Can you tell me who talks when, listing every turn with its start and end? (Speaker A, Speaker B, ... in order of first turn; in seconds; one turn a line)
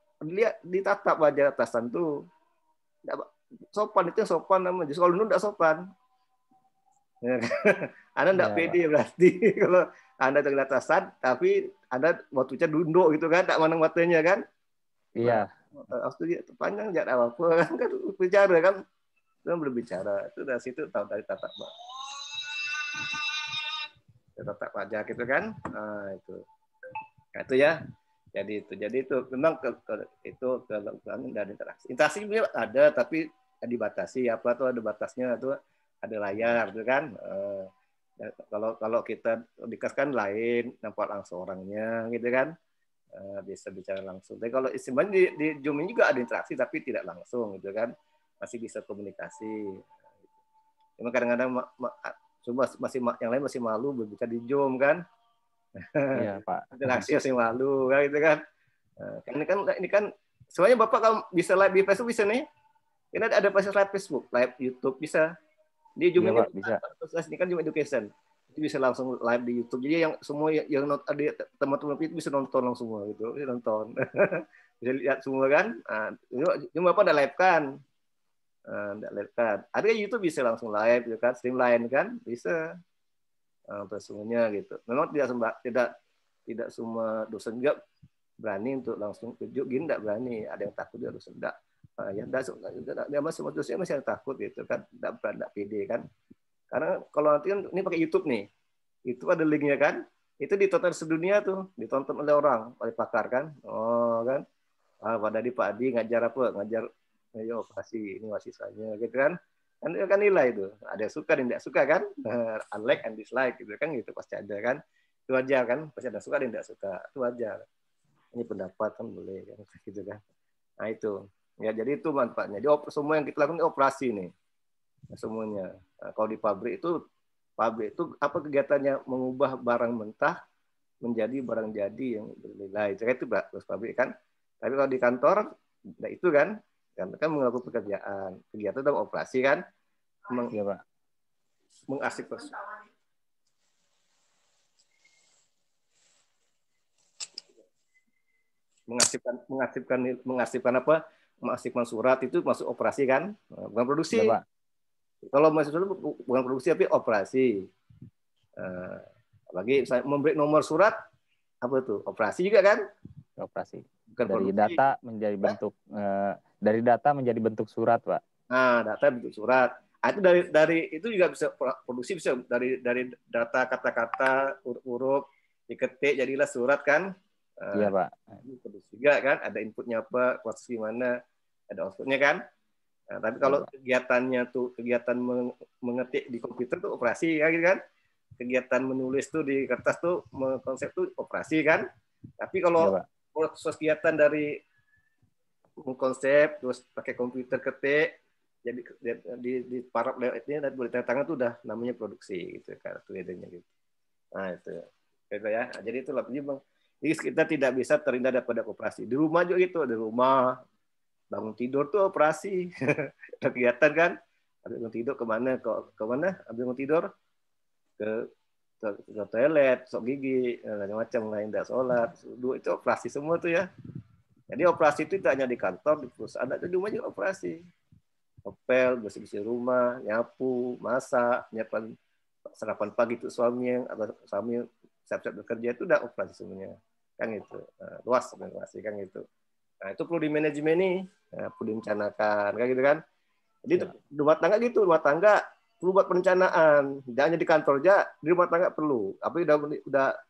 Speaker A: 0.2-2.1
Speaker A: 3.0-5.8
Speaker A: 7.2-14.4
Speaker B: 8.3-8.8
Speaker B: 15.2-15.5
Speaker A: 15.2-18.8
Speaker A: 19.4-21.7
Speaker A: 24.4-26.4
Speaker A: 27.4-27.8
Speaker A: 28.4-37.7
Speaker A: 38.2-42.5
Speaker A: 43.1-47.9
Speaker A: 48.4-49.6
Speaker A: 51.0-55.0
Speaker B: 56.1-57.0
Speaker A: 56.8-58.4
Speaker A: 59.0-62.4
Speaker A: 63.1-65.2
Speaker A: 66.0-73.9
Speaker B: 66.2-66.8
Speaker A: 74.8-77.7
Speaker A: 78.7-82.5
Speaker A: 83.7-85.9
Speaker A: 86.5-87.8
Speaker A: 88.4-96.0
Speaker A: 96.7-98.5
Speaker A: 99.1-104.4
Speaker A: 105.0-106.8
Speaker A: 107.4-117.6
Speaker A: 118.3-120.2
Speaker A: 120.8-124.3
Speaker A: 125.1-126.9
Speaker A: 127.6-130.4
Speaker A: 131.0-134.1
Speaker A: 134.6-135.4
Speaker A: 136.0-139.6
Speaker A: 140.3-140.5
Speaker B: 140.5-140.8
Speaker A: 141.9-142.6
Speaker A: 148.9-154.3
Speaker B: 154.1-154.4
Speaker A: 155.3-157.7
Speaker A: 158.6-161.0
Speaker A: 161.6-162.8
Speaker B: 163.4-168.2
Speaker A: 164.1-164.9
Speaker A: 168.5-177.1
Speaker A: 177.6-177.9
Speaker B: 177.7-178.1
Speaker A: 178.4-181.1
Speaker A: 181.7-182.4
Speaker A: 183.1-187.8
Speaker B: 183.4-183.7
Speaker A: 188.4-191.8
Speaker A: 192.4-194.5
Speaker B: 192.8-193.0
Speaker A: 195.8-198.1
Speaker A: 198.7-203.7
Speaker A: 204.4-210.6
Speaker A: 211.3-212.6
Speaker A: 213.4-217.1
Speaker A: 218.8-223.7
Speaker A: 224.5-227.6
Speaker A: 228.5-231.9
Speaker A: 232.5-239.2
Speaker A: 239.8-243.0
Speaker A: 243.7-250.1